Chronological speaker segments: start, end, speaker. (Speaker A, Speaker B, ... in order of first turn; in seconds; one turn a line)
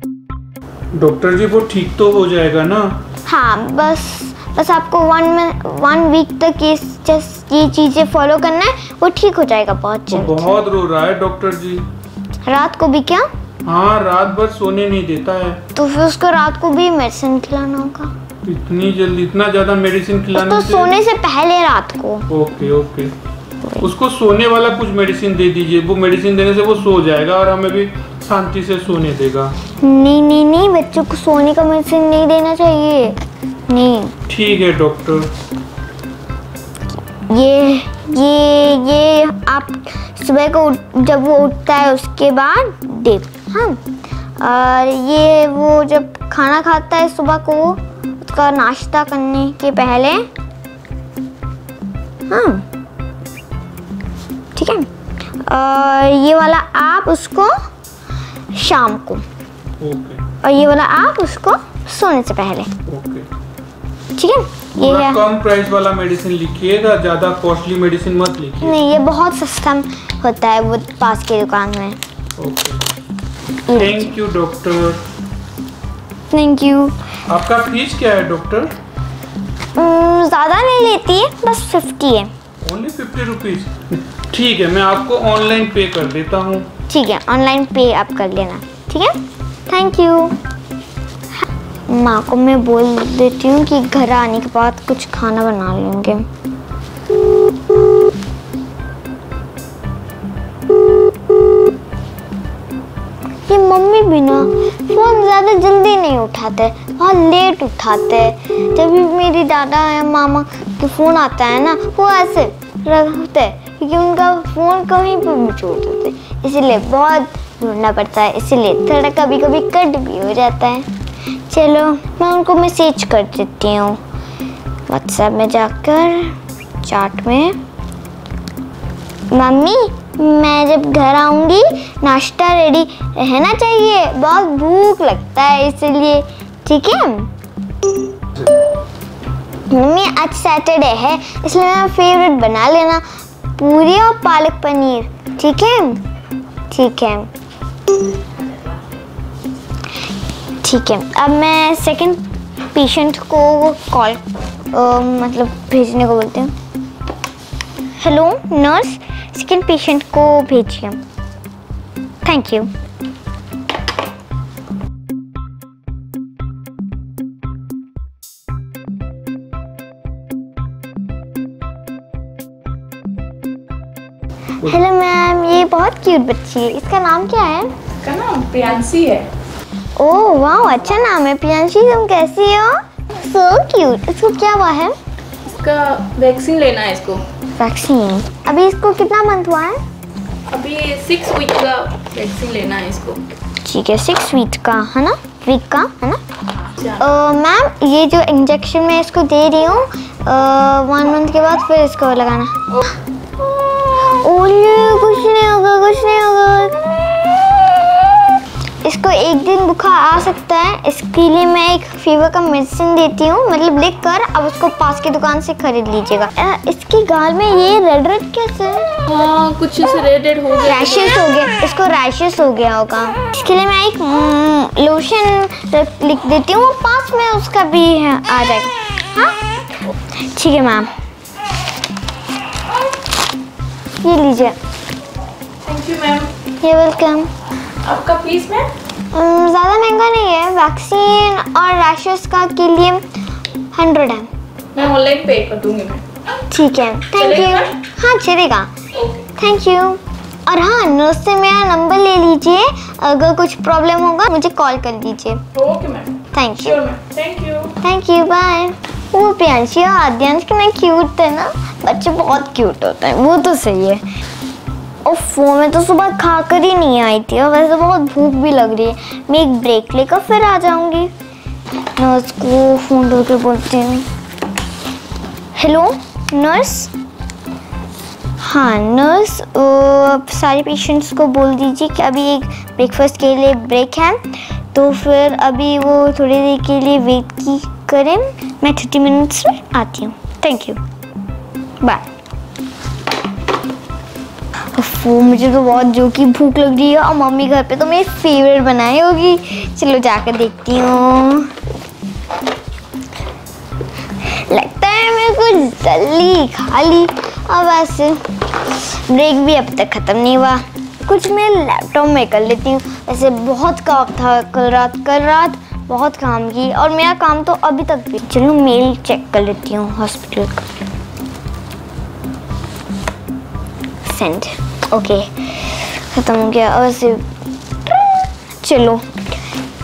Speaker A: 0.9-3.0
Speaker B: 3.3-10.5
Speaker A: 10.1-11.9
Speaker B: 12.5-13.3
Speaker A: 13.7-15.6
Speaker B: 15.8-18.1
Speaker A: 18.4-20.9
Speaker B: 20.3-22.3
Speaker A: 22.3-23.1
Speaker A: 23.8-29.6
Speaker B: 29.8-34.1
Speaker A: 34.3-35.3
Speaker B: 37.3-43.8
Speaker B: 44.4-50.3
Speaker B: 52.3-52.6
Speaker B: 54.5-54.9
Speaker B: 55.5-57.5
Speaker B: 58.5-59.2
Speaker A: 59.8-60.2
Speaker B: 60.4-62.7
Speaker A: 62.9-63.3
Speaker B: 64.2-65.2
Speaker A: 64.8-68.8
Speaker B: 68.6-72.0
Speaker A: 72.4-72.8
Speaker B: 73.7-74.1
Speaker A: 73.7-75.0
Speaker B: 76.3-77.0
Speaker A: 77.3-78.7
Speaker B: 79.8-82.3
Speaker A: 82.6-86.7
Speaker B: 86.9-89.2
Speaker B: 89.7-90.4
Speaker B: 91.9-96.3
Speaker B: 103.5-120.9
Speaker B: 121.5-124.0
Speaker B: 124.9-127.6
Speaker B: 129.3-137.3
Speaker B: 139.7-143.0
Speaker B: 143.6-146.0
Speaker B: 146.7-147.3
Speaker B: 150.6-156.5
Speaker B: 158.0-161.0
Speaker B: 162.2-162.7
Speaker B: 174.6-177.7
Speaker C: 178.0-179.3
Speaker B: 180.0-184.9
Speaker C: 185.6-187.2
Speaker B: 187.6-189.8
Speaker C: 190.5-193.3
Speaker B: 193.6-196.2
Speaker B: 196.9-202.8
Speaker B: 203.9-207.5
Speaker B: 208.8-219.0
Speaker C: 219.1-221.2
Speaker B: 220.6-229.4
Speaker B: 230.2-230.9
Speaker B: 234.0-234.6
Speaker C: 235.6-236.3
Speaker B: 236.6-237.3
Speaker C: 237.8-238.7
Speaker B: 239.1-243.0
Speaker B: 243.7-244.3
Speaker C: 244.8-246.0
Speaker B: 246.5-248.7
Speaker C: 247.1-247.7
Speaker C: 249.0-249.2
Speaker B: 249.4-255.4
Speaker C: 255.5-257.8
Speaker B: 256.3-256.8
Speaker B: 257.8-264.0
Speaker B: 265.1-271.1
Speaker B: 272.0-274.1
Speaker B: 275.6-276.9
Speaker B: 278.4-290.8
Speaker B: 294.7-301.5
Speaker B: 304.2-320.7
Speaker B: 324.0-327.2
Speaker B: 327.9-329.2